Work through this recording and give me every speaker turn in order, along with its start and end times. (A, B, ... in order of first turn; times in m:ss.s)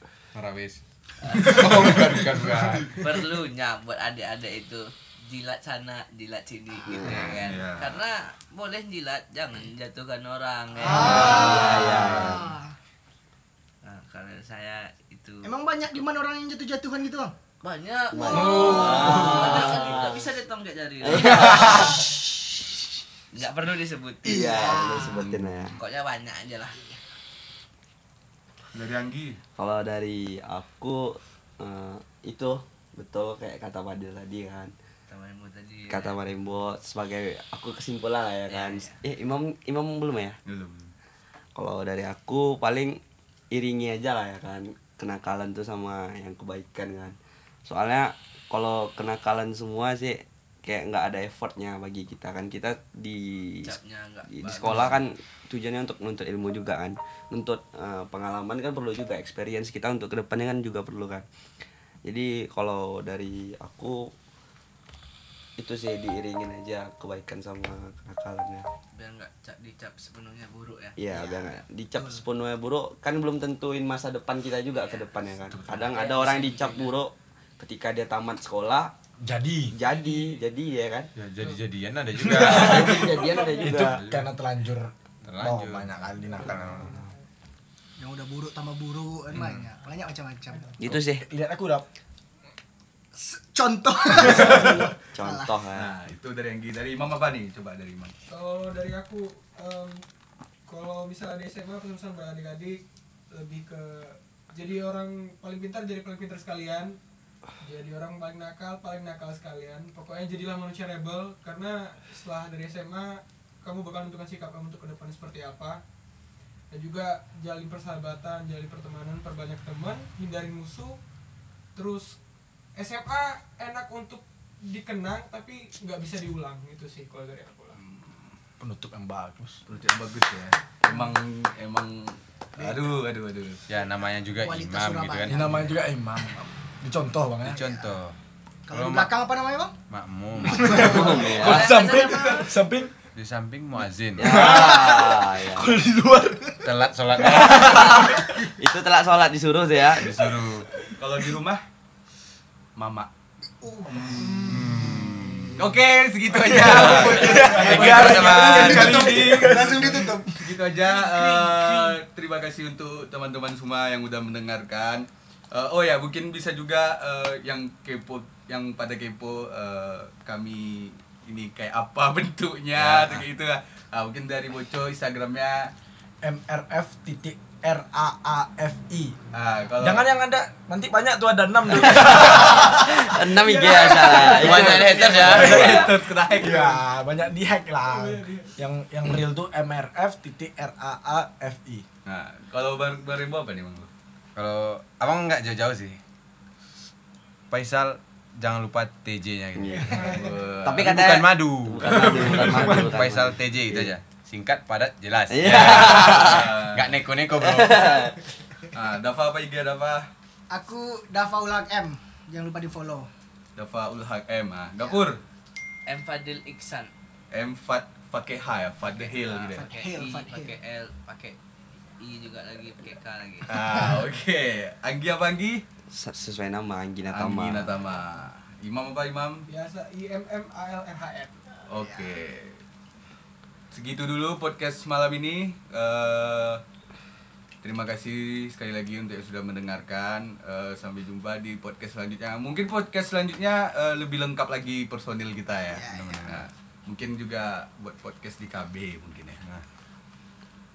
0:00.3-0:03.0 A
0:01.2-0:01.9 B
0:02.9-0:12.2 B
0:06.8-0:07.5 C
0:07.2-0:08.0 D
0:10.8-0:12.7 E
0:10.8-0:12.5 C
0:13.8-0:15.5 B
0:15.4-0:17.3 E
0:17.6-0:22.0 B
0:18.1-0:20.3 C
0:18.6-0:19.4 F
0:18.7-0:19.6 E
0:21.0-0:22.0 C
0:21.4-0:21.8 F
0:23.3-0:24.5 B
0:24.2-0:25.8 C
0:24.2-0:25.3 E
0:25.0-0:25.5 D
0:25.8-0:26.8 B
0:28.7-0:29.4 D
0:29.6-0:34.7 C
0:35.1-0:36.2 B
0:35.9-0:40.4 C
0:38.5-0:39.0 B
0:40.4-0:40.9 D
0:41.5-0:43.0 C
0:43.5-0:47.1 C
0:47.7-0:53.7 C
0:53.6-0:55.0 B
0:54.3-1:01.2 C
1:02.0-1:04.1 C
1:05.6-1:08.6 C
1:08.9-1:11.0 B
1:11.0-1:18.9 C
1:11.1-1:12.2 E
1:14.7-1:16.9 B
1:19.2-1:19.8 F
1:19.7-1:21.1 C
1:21.2-1:23.2 A
1:22.2-1:27.0 F
1:22.2-1:24.0 C
1:23.2-1:23.6 G
1:23.8-1:24.3 A
1:25.2-1:26.1 A
1:26.3-1:27.1 G
1:28.0-1:30.8 E
1:30.8-1:31.2 C
1:30.9-1:31.8 F
1:33.2-1:35.5 E
1:34.2-1:35.9 C
1:34.4-1:34.7 F
1:35.7-1:38.1 D
1:38.3-1:40.0 G
1:40.7-1:47.0 G
1:47.6-1:55.8 G
1:56.7-2:01.0 G
2:01.8-2:02.2 G
2:02.8-2:07.8 G
2:08.6-2:09.6 F
2:09.7-2:13.6 D
2:12.6-2:13.0 E
2:13.7-2:15.6 A
2:14.4-2:15.8 E
2:15.3-2:17.6 F
2:17.4-2:18.2 A
2:18.7-2:19.7 E
2:18.7-2:19.1 A
2:19.9-2:21.2 A
2:20.5-2:22.9 F
2:20.5-2:21.0 E
2:20.8-2:21.7 C
2:21.2-2:22.5 B
2:23.1-2:24.5 A
2:24.2-2:25.8 C
2:24.2-2:26.6 F
2:26.6-2:28.1 A
2:27.3-2:28.3 F
2:27.3-2:30.1 C
2:29.9-2:30.7 A
2:31.0-2:31.6 D
2:32.8-2:33.1 D
2:33.6-2:35.4 E
2:33.8-2:34.7 D
2:34.4-2:35.6 A
2:35.6-2:55.7 D
2:36.4-2:40.0 F
2:36.6-2:39.0 A
2:37.5-2:40.6 E
2:41.0-2:41.9 G
2:52.7-2:53.2 A
2:56.2-2:59.2 F
2:59.3-3:00.1 D
2:59.8-3:02.7 F
3:01.7-3:05.9 C
3:01.9-3:02.7 D
3:02.3-3:05.7 G
3:04.1-3:06.8 D
3:04.1-3:11.8 F
3:07.8-3:08.6 G
3:12.0-3:13.9 D
3:14.4-3:16.0 A
3:17.5-3:28.0 A
3:19.6-3:20.0 C
3:19.9-3:20.4 G
3:19.9-3:20.9 D
3:20.6-3:23.9 C
3:22.0-3:22.5 D
3:22.6-3:23.0 F
3:25.3-3:26.5 C
3:25.5-3:26.9 D
3:27.4-3:28.2 C
3:28.7-3:30.1 D
3:30.5-3:33.1 E
3:33.6-3:35.2 D
3:35.9-3:36.9 B
3:37.3-3:39.7 D
3:38.8-3:41.4 B
3:39.5-3:40.5 E
3:42.0-3:43.5 B
3:43.4-3:45.6 D
3:45.9-3:47.8 C
3:47.1-3:49.4 D
3:49.5-3:51.4 G
3:51.7-3:52.6 D
3:51.8-3:52.1 E
3:53.7-3:56.6 D
3:57.6-4:09.4 D
4:05.7-4:06.3 E
4:05.9-4:06.4 A